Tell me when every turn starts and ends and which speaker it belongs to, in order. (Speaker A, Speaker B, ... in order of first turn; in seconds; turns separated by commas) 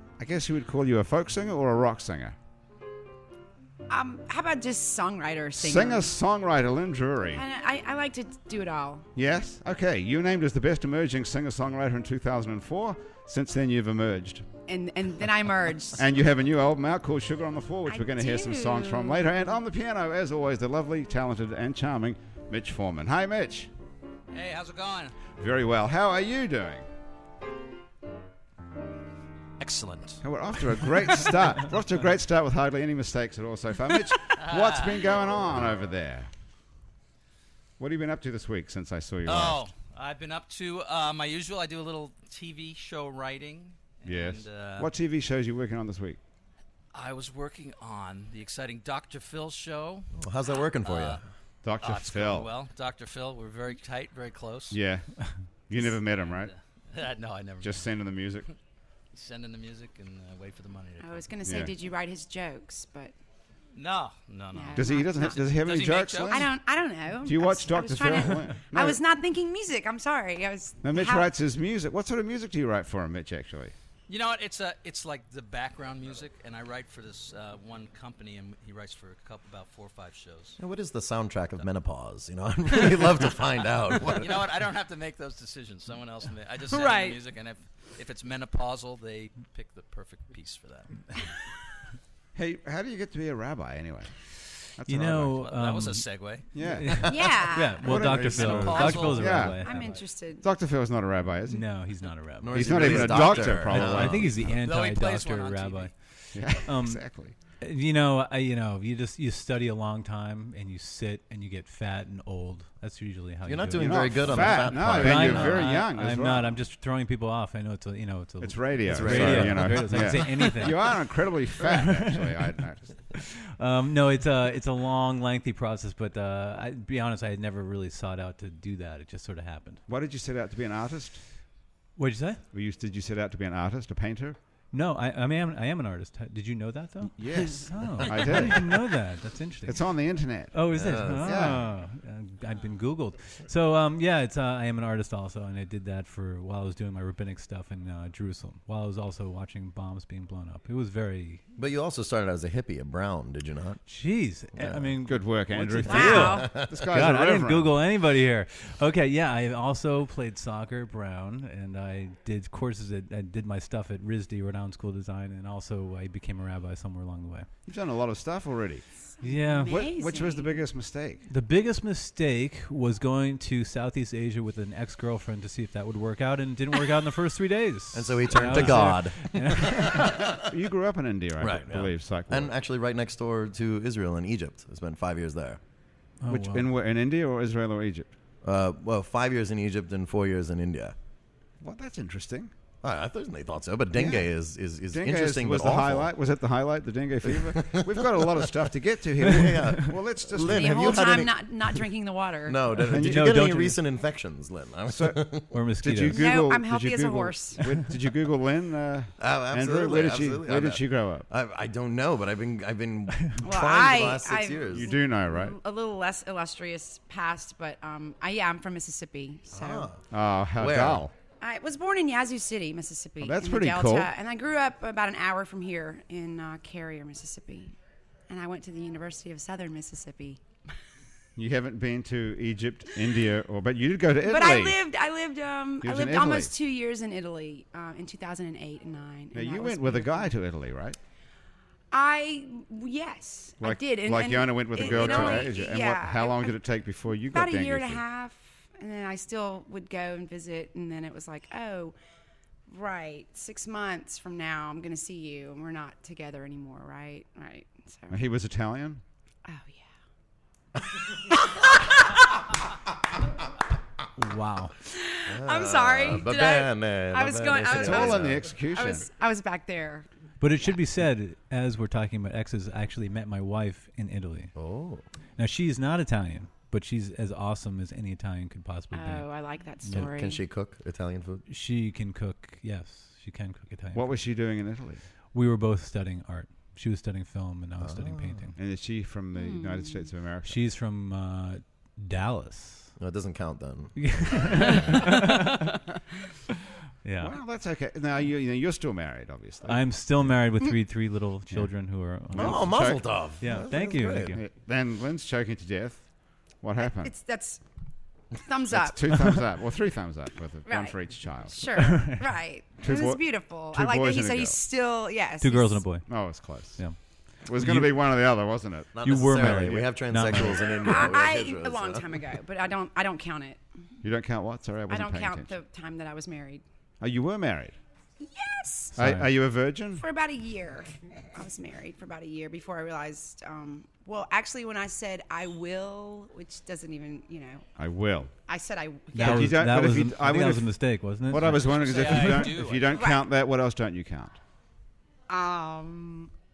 Speaker A: 0.2-2.4, Speaker B: 3.9-6.1, Speaker A: 5.6-7.4, Speaker B: 7.3-9.1, Speaker A: 9.2-14.5, Speaker B: 14.7-16.1, Speaker A: 16.0-23.7, Speaker B: 17.9-19.4, Speaker C: 24.3-25.2, Speaker A: 25.4-26.9, Speaker C: 29.6-30.7, Speaker A: 30.2-36.3, Speaker C: 34.4-35.1, Speaker A: 37.8-39.6, Speaker C: 39.3-44.9, Speaker A: 44.0-46.2, Speaker C: 46.9-50.1, Speaker D: 50.1-51.2, Speaker C: 50.8-51.2, Speaker A: 51.6-52.5, Speaker C: 51.8-54.8, Speaker A: 54.7-55.2, Speaker A: 55.7-56.5, Speaker C: 56.3-57.9, Speaker A: 57.6-58.5, Speaker C: 59.1-61.3, Speaker B: 61.0-63.1, Speaker A: 61.5-61.7, Speaker C: 63.8-66.5, Speaker B: 64.5-65.6, Speaker A: 64.7-66.5, Speaker B: 66.3-71.3, Speaker A: 67.2-69.0, Speaker A: 70.8-73.8, Speaker C: 74.1-80.6, Speaker D: 80.6-84.4, Speaker C: 84.0-91.3, Speaker B: 86.7-87.2, Speaker A: 92.3-94.1, Speaker A: 94.8-95.4, Speaker E: 94.8-96.0, Speaker C: 95.4-96.5, Speaker A: 96.5-97.1, Speaker E: 96.6-100.0, Speaker D: 96.9-97.3, Speaker B: 97.1-98.1, Speaker A: 97.8-99.7, Speaker D: 98.1-99.0, Speaker C: 98.3-99.9, Speaker B: 98.8-100.5, Speaker A: 100.4-101.7, Speaker E: 101.5-107.0, Speaker D: 102.4-104.3, Speaker A: 102.5-104.6, Speaker C: 104.4-105.9, Speaker A: 106.3-107.3, Speaker E: 107.6-121.1, Speaker D: 113.5-115.7, Speaker A: 113.8-116.6, Speaker A: 118.4-123.0, Speaker D: 118.9-120.5, Speaker E: 121.6-122.5, Speaker E: 123.1-129.8, Speaker A: 129.9-131.2, Speaker E: 132.0-132.4, Speaker A: 132.5-134.4, Speaker E: 134.7-139.8, Speaker A: 137.2-138.8, Speaker A: 139.7-141.6, Speaker E: 140.5-151.4, Speaker D: 140.7-141.7, Speaker D: 151.6-153.8, Speaker E: 153.9-167.5, Speaker D: 154.6-154.9, Speaker A: 155.1-157.7, Speaker B: 155.9-156.5, Speaker D: 156.2-156.8, Speaker A: 167.7-168.8, Speaker B: 169.2-170.6, Speaker E: 169.2-169.8, Speaker A: 169.7-171.3, Speaker E: 171.3-180.2, Speaker D: 177.9-180.5, Speaker A: 179.7-182.5, Speaker D: 181.4-185.6, Speaker E: 186.2-186.7, Speaker A: 186.3-188.1, Speaker D: 188.4-191.0, Speaker A: 191.6-192.5, Speaker D: 192.8-196.1, Speaker A: 193.9-194.3, Speaker A: 194.9-201.1, Speaker D: 197.2-198.5, Speaker D: 199.2-201.8, Speaker E: 199.3-199.9, Speaker B: 200.3-202.7, Speaker D: 202.5-205.5, Speaker E: 202.8-203.8, Speaker A: 202.9-203.4, Speaker A: 204.9-205.2, Speaker E: 205.5-206.2, Speaker A: 205.8-211.3, Speaker B: 206.1-207.7, Speaker D: 209.2-214.9, Speaker B: 213.4-219.9, Speaker A: 214.7-215.6, Speaker D: 219.5-220.0, Speaker A: 220.1-221.1, Speaker D: 220.6-221.0, Speaker B: 221.4-227.8, Speaker A: 223.2-224.1, Speaker B: 228.3-230.4, Speaker A: 231.4-234.8, Speaker B: 234.3-240.3, Speaker A: 235.8-236.5, Speaker A: 239.3-241.0, Speaker B: 241.9-246.6, Speaker A: 243.6-248.0, Speaker D: 244.9-245.3, Speaker B: 247.3-251.9, Speaker B: 252.7-258.2, Speaker A: 258.1-259.0, Speaker B: 259.4-259.9, Speaker B: 261.1-262.4, Speaker E: 264.2-264.7, Speaker B: 264.8-270.1, Speaker D: 265.3-268.4, Speaker A: 267.7-269.1, Speaker E: 270.4-274.5, Speaker D: 274.6-275.0, Speaker E: 275.4-279.3, Speaker B: 278.9-280.4, Speaker E: 279.8-280.1, Speaker D: 279.9-281.4, Speaker E: 281.5-284.1, Speaker A: 283.9-285.0, Speaker E: 285.3-288.6, Speaker D: 287.8-288.5, Speaker A: 288.6-290.6, Speaker B: 289.4-290.1, Speaker E: 290.4-293.0, Speaker D: 293.0-294.9, Speaker E: 294.0-295.8, Speaker E: 297.0-297.4, Speaker A: 297.2-299.8, Speaker E: 299.7-302.9, Speaker A: 302.3-303.1, Speaker D: 302.3-304.4, Speaker E: 303.4-304.4, Speaker A: 304.3-306.1, Speaker A: 306.6-307.1, Speaker B: 306.8-307.6, Speaker B: 308.4-309.1, Speaker A: 308.7-311.8, Speaker E: 309.1-309.4, Speaker B: 310.7-315.8, Speaker E: 311.8-312.2, Speaker A: 312.8-314.6, Speaker E: 315.4-316.1, Speaker A: 316.1-316.8, Speaker A: 317.4-319.9, Speaker E: 317.5-318.0, Speaker D: 318.9-322.1, Speaker E: 319.0-320.8, Speaker B: 320.8-323.6, Speaker A: 324.0-325.6, Speaker B: 324.9-326.6, Speaker A: 327.0-327.8, Speaker B: 328.2-329.0, Speaker E: 328.9-329.3, Speaker A: 329.0-330.1, Speaker B: 330.0-337.7, Speaker A: 337.8-338.3, Speaker B: 338.5-339.5, Speaker E: 339.1-342.5, Speaker A: 339.2-340.7, Speaker A: 341.3-344.4, Speaker C: 341.6-343.0, Speaker B: 342.9-343.2, Speaker B: 345.3-346.3